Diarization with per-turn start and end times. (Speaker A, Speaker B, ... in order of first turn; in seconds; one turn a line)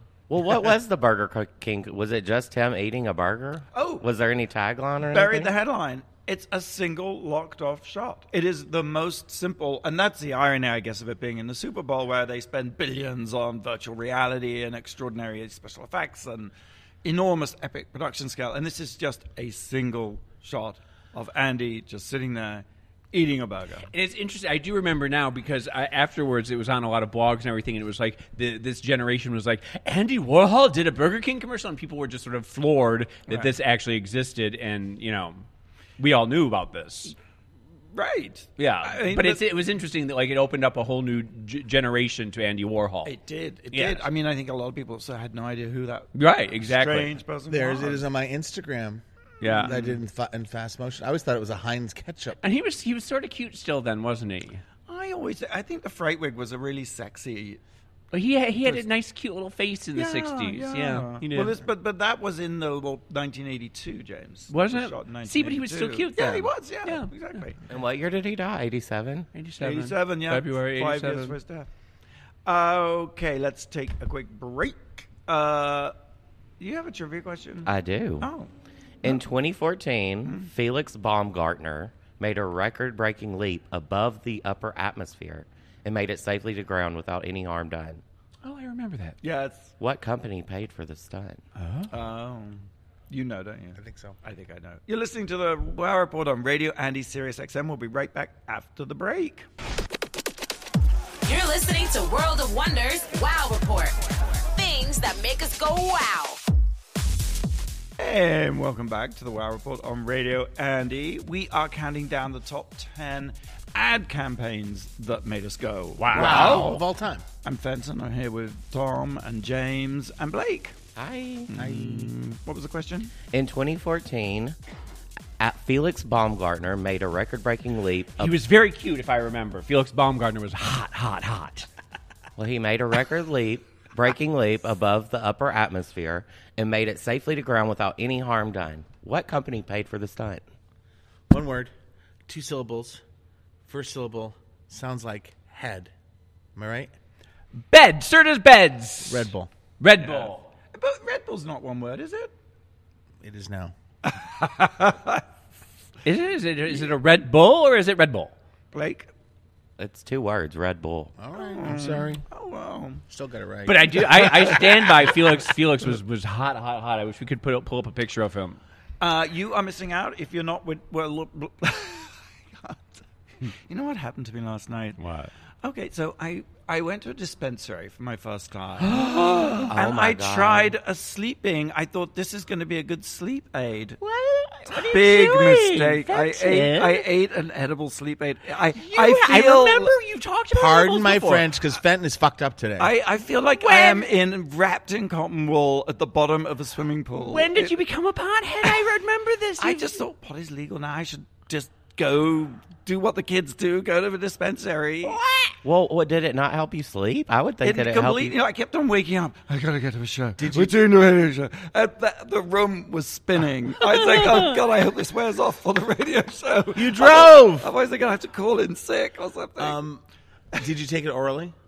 Speaker A: 0.3-5.5
Speaker B: 3.7-4.1
Speaker B: 5.1-16.5
Speaker B: 17.0-23.9
Speaker C: 23.9-35.4
Speaker C: 36.0-37.1
Speaker B: 37.9-39.4
Speaker C: 38.6-43.1
Speaker B: 43.0-48.0
Speaker C: 43.7-44.1
Speaker C: 46.1-47.2
Speaker D: 47.5-49.0
Speaker C: 49.4-49.8
Speaker B: 49.4-50.0
Speaker D: 49.6-52.4
Speaker C: 52.4-54.6
Speaker B: 54.9-57.6
Speaker C: 58.1-61.6
Speaker B: 60.0-67.6
Speaker C: 64.5-67.1
Speaker A: 67.7-69.3
Speaker C: 69.3-71.4
Speaker B: 69.6-71.7
Speaker B: 72.5-75.9
Speaker B: 76.6-78.5
Speaker A: 77.7-78.3
Speaker A: 79.0-88.0
Speaker C: 88.4-89.2
Speaker B: 89.2-89.7
Speaker A: 89.8-91.4
Speaker C: 91.6-91.9
Speaker B: 91.9-99.5
Speaker D: 93.8-94.2
Speaker E: 101.2-106.4
Speaker B: 108.0-116.8
Speaker C: 116.0-116.8
Speaker D: 116.1-117.2
Speaker B: 117.4-120.8
Speaker A: 121.0-121.5
Speaker B: 121.5-123.1
Speaker D: 121.6-122.1
Speaker A: 123.3-124.6
Speaker A: 125.4-128.3
Speaker C: 128.2-131.7
Speaker A: 132.4-140.4
Speaker D: 141.3-141.7
Speaker D: 142.3-143.0
Speaker D: 143.7-145.9
Speaker D: 146.6-146.9
Speaker C: 147.7-150.5
Speaker D: 149.1-149.5
Speaker B: 150.0-152.3
Speaker D: 153.2-153.7
Speaker B: 154.0-155.2
Speaker C: 156.1-158.3
Speaker B: 158.7-159.1
Speaker A: 159.8-161.1
Speaker D: 161.2-162.2
Speaker B: 161.3-163.0
Speaker D: 163.1-164.5
Speaker C: 163.7-168.6
Speaker B: 164.1-165.2
Speaker B: 169.0-175.0
Speaker C: 175.0-175.3
Speaker B: 175.6-184.0
Speaker C: 178.8-179.7
Speaker A: 179.7-180.8
Speaker C: 184.0-187.1
Speaker B: 184.7-189.9
Speaker C: 188.8-191.5
Speaker D: 190.5-192.9
Speaker B: 192.8-197.7
Speaker C: 193.6-194.1
Speaker C: 197.2-200.0
Speaker B: 199.6-205.2
Speaker C: 205.0-205.6
Speaker A: 205.6-208.4
Speaker B: 207.6-219.8
Speaker D: 210.4-210.8
Speaker C: 214.0-214.4
Speaker D: 216.8-217.7
Speaker D: 219.6-220.0
Speaker D: 220.5-221.5